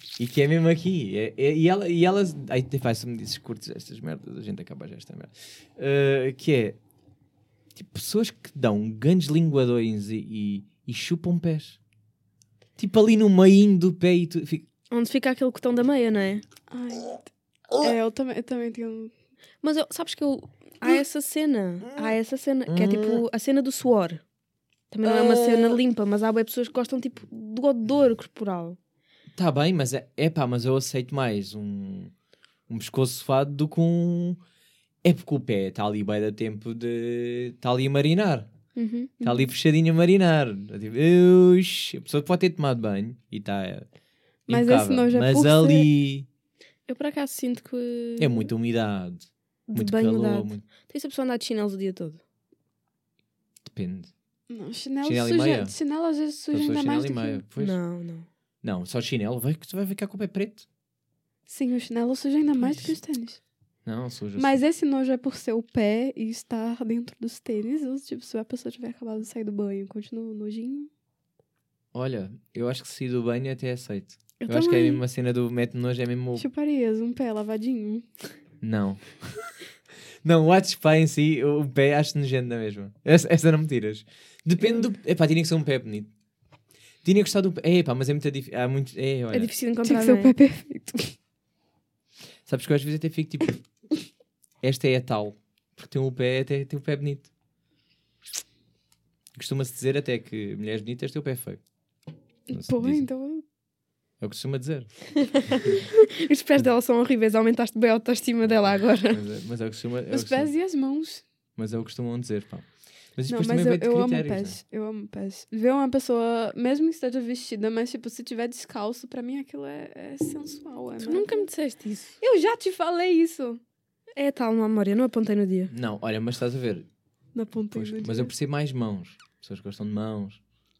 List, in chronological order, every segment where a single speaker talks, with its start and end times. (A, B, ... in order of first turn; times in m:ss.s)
0:00.2-0:06.8 A
0:07.8-0:11.8 A
0:12.8-0:14.7 A
0:14.9-0:16.4 B
0:16.7-0:17.3 C
0:17.8-0:19.1 C
0:19.6-0:24.2 B
0:21.8-0:22.2 A
0:22.7-0:23.2 A
0:24.9-0:28.8 B
0:25.0-0:25.8 A
0:29.4-0:32.1 A
0:32.7-0:34.4 A
0:35.0-0:38.5 A
0:38.8-0:39.1 B
0:39.2-0:39.5 C
0:39.2-0:43.9 A
0:44.5-0:45.9 C
0:44.5-0:46.3 A
0:46.9-0:48.5 B
0:48.2-0:50.6 A
0:49.7-0:52.2 B
0:53.6-0:54.1 A
0:54.5-0:57.4 C
0:55.0-0:55.8 A
0:56.5-0:57.8 A
0:57.6-0:58.3 B
0:58.6-1:00.7 A
1:01.5-1:03.4 C
1:03.8-1:04.6 A
1:04.4-1:10.9 C
1:11.9-1:16.5 A
1:14.4-1:15.0 B
1:16.4-1:18.1 C
1:18.6-1:19.4 A
1:20.2-1:26.1 A
1:27.0-1:29.5 A
1:29.3-1:30.3 B
1:29.8-1:31.2 C
1:32.5-1:33.6 A
1:34.6-1:37.3 A
1:39.4-1:41.6 A
1:42.5-1:43.4 C
1:42.5-1:43.1 A
1:44.2-1:45.7 A
1:45.2-1:49.2 B
1:48.6-1:50.5 A
1:50.1-1:51.2 C
1:51.6-1:54.6 A
1:53.3-2:01.5 C
2:01.0-2:02.2 B
2:02.2-2:03.6 C
2:04.2-2:05.7 B
2:05.7-2:06.9 A
2:07.4-2:08.3 C
2:07.6-2:10.4 A